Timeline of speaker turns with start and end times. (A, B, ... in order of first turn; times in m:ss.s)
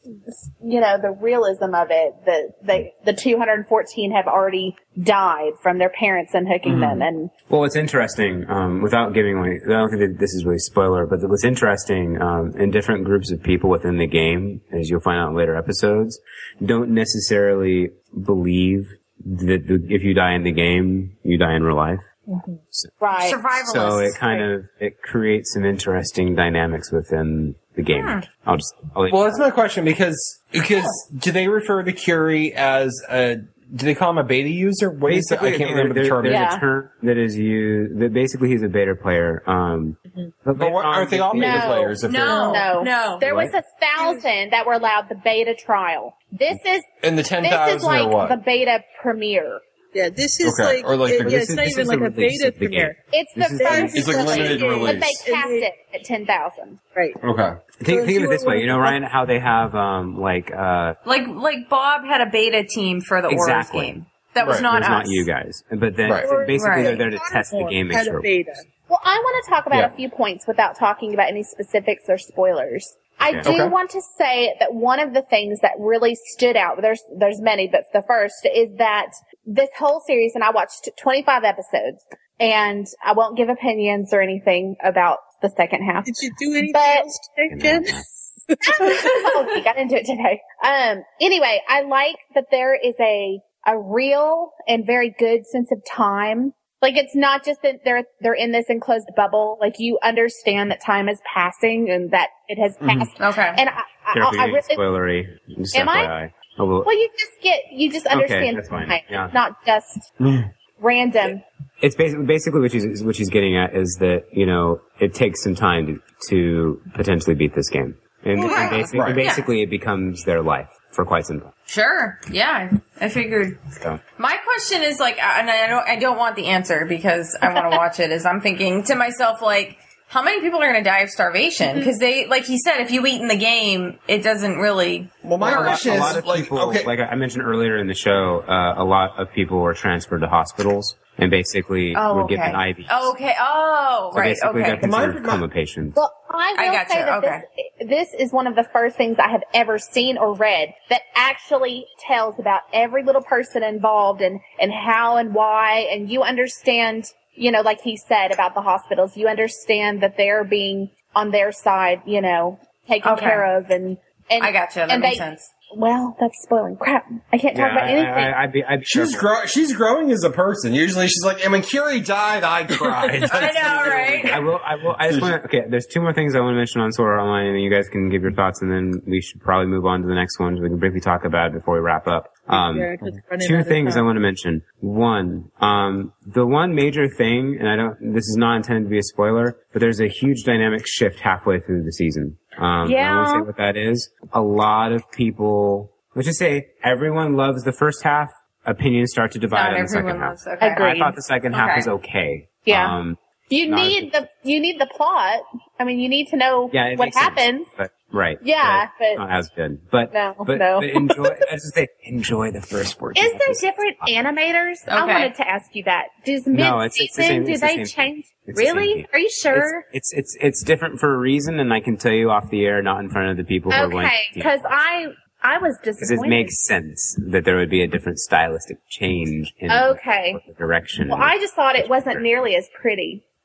0:00.3-0:07.3 A
0:06.6-0:22.0 B
0:22.3-0:22.6 C
0:23.0-0:23.4 A
0:23.2-0:24.4 D
0:23.6-0:29.4 B
0:27.9-0:28.2 D
0:29.1-0:36.5 E
0:35.1-0:41.8 B
0:36.2-0:36.6 A
0:40.5-0:42.6 E
0:41.3-0:46.9 A
0:42.0-0:43.2 D
0:43.2-0:43.5 B
0:47.0-0:48.4 E
0:47.4-0:49.6 A
0:49.9-0:53.0 C
0:50.4-0:51.4 E
0:51.2-0:54.2 B
0:53.1-0:56.8 A
0:53.5-0:55.7 C
0:53.9-0:55.2 E
0:57.2-0:57.6 E
0:57.8-1:01.0 B
0:57.8-0:59.0 C
1:01.0-1:05.3 D
1:03.3-1:03.9 B
1:04.4-1:04.7 E
1:04.5-1:08.3 B
1:06.2-1:08.6 C
1:06.6-1:07.0 D
1:08.9-1:27.1 A
1:13.4-1:13.8 E
1:26.0-1:29.5 C
1:27.5-1:28.0 B
1:28.6-1:44.8 A
1:43.2-1:43.6 D
1:44.1-1:46.9 B
1:45.7-1:46.1 A
1:46.8-1:50.1 A
1:48.1-1:49.3 B
1:50.2-1:50.5 E
1:50.8-1:51.4 A
1:51.8-2:01.5 B
1:58.4-1:58.9 C
1:58.4-1:59.4 D
1:58.9-1:59.2 E
2:01.7-2:03.6 D
2:04.2-2:16.2 D
2:15.2-2:16.9 E
2:15.4-2:23.1 B
2:21.9-2:24.8 D
2:24.1-2:26.0 B
2:24.8-2:25.4 E
2:25.9-2:48.3 A
2:26.6-2:27.4 D
2:43.0-2:43.4 D
2:44.4-2:45.5 D
2:47.5-2:49.3 B
2:48.9-2:55.4 E
2:53.3-2:54.4 D
2:53.9-3:24.2 B
3:02.5-3:04.0 C
3:12.8-3:13.5 A
3:19.5-3:20.8 D
3:20.6-3:21.1 A
3:21.5-3:21.9 D
3:22.6-3:23.0 A
3:23.5-3:27.7 A
3:26.7-3:34.1 B
3:28.4-3:29.2 A
3:30.1-3:31.3 A
3:33.2-3:39.8 A
3:34.9-3:35.3 D
3:36.5-3:44.8 B
3:43.7-3:46.5 A
3:46.0-3:52.2 B
3:49.7-3:50.4 A
3:51.1-3:53.2 A